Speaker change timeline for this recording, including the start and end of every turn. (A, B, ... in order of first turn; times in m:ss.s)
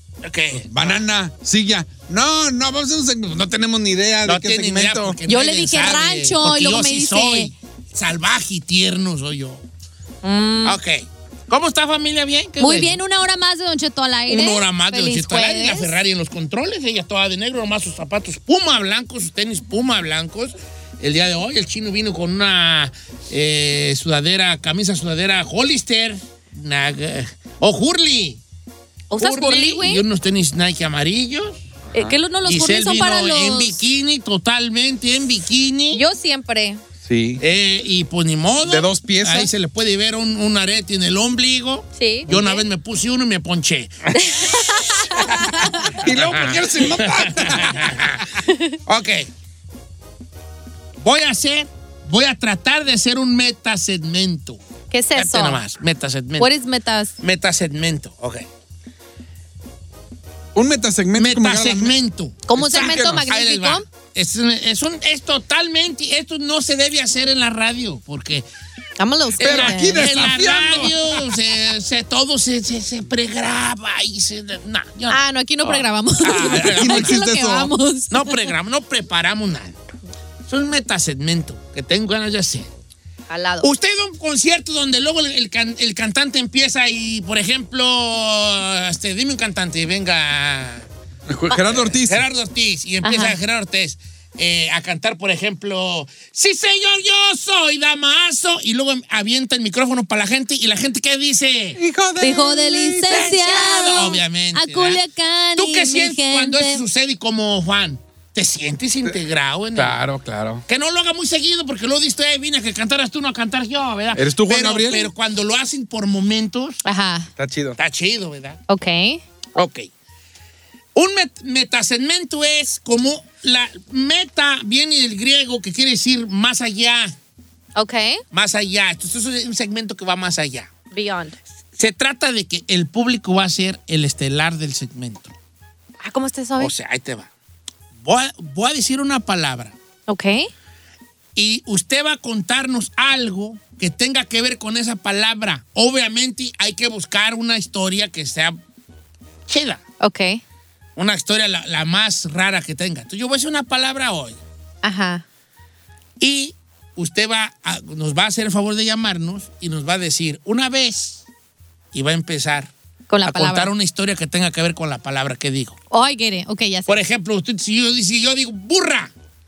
0:00.2-0:01.0 A
0:00.6-0:05.2 B
0:04.2-0:09.6 A
0:05.3-0:07.5 C
0:10.2-0:10.8 C
0:10.6-0:13.0 A
0:12.6-0:16.0 C
0:14.3-0:28.4 A
0:29.1-0:30.0 C
0:29.2-0:31.6 A
0:31.9-0:33.8 C
0:32.5-0:36.0 A
0:35.9-0:36.8 C
0:37.0-0:37.4 B
0:37.4-0:44.5 A
0:38.6-0:39.5 B
0:42.0-0:42.6 C
0:44.2-0:46.0 C
0:45.2-0:48.3 A
0:45.8-0:48.3 B
0:48.5-0:48.8 C
0:48.9-0:49.3 A
0:51.0-0:54.6 A
0:54.9-0:55.6 C
0:55.2-0:56.5 A
0:56.4-0:57.1 C
0:57.2-0:58.4 A
1:00.6-1:02.0 B
1:01.2-1:08.4 A
1:02.5-1:03.8 C
1:02.9-1:03.2 B
1:09.0-1:10.0 C
1:09.4-1:11.3 B
1:09.4-1:17.2 A
1:15.1-1:18.5 C
1:16.3-1:17.7 B
1:18.1-1:19.8 A
1:20.5-1:22.7 A
1:23.3-1:23.7 C
1:23.6-1:30.9 A
1:31.3-1:32.2 B
1:31.6-1:41.8 A
1:33.0-1:33.4 C
1:41.8-1:43.2 B
1:42.2-1:46.8 C
1:43.1-1:45.0 A
1:45.6-1:50.0 A
1:49.7-1:50.6 B
1:50.7-1:56.8 A
1:54.2-1:55.1 B
1:56.8-1:57.3 C
1:57.4-1:57.8 B
1:57.8-1:58.6 A
1:58.7-1:59.2 C
1:59.6-1:59.9 A
2:01.0-2:07.2 A
2:07.8-2:08.2 C
2:08.3-2:10.7 A
2:10.9-2:11.4 C
2:11.8-2:15.3 A
2:16.0-2:16.7 C
2:16.6-2:17.3 A
2:18.0-2:19.8 A
2:20.1-2:20.5 C
2:21.4-2:28.6 A
2:29.5-2:29.8 A
2:30.0-2:30.4 C
2:31.0-2:34.4 A
2:34.8-2:35.2 C
2:36.2-2:41.2 A
2:41.9-2:42.7 A
2:43.1-2:43.7 C
2:43.2-2:45.8 A
2:45.9-2:46.9 C
2:46.9-2:49.1 A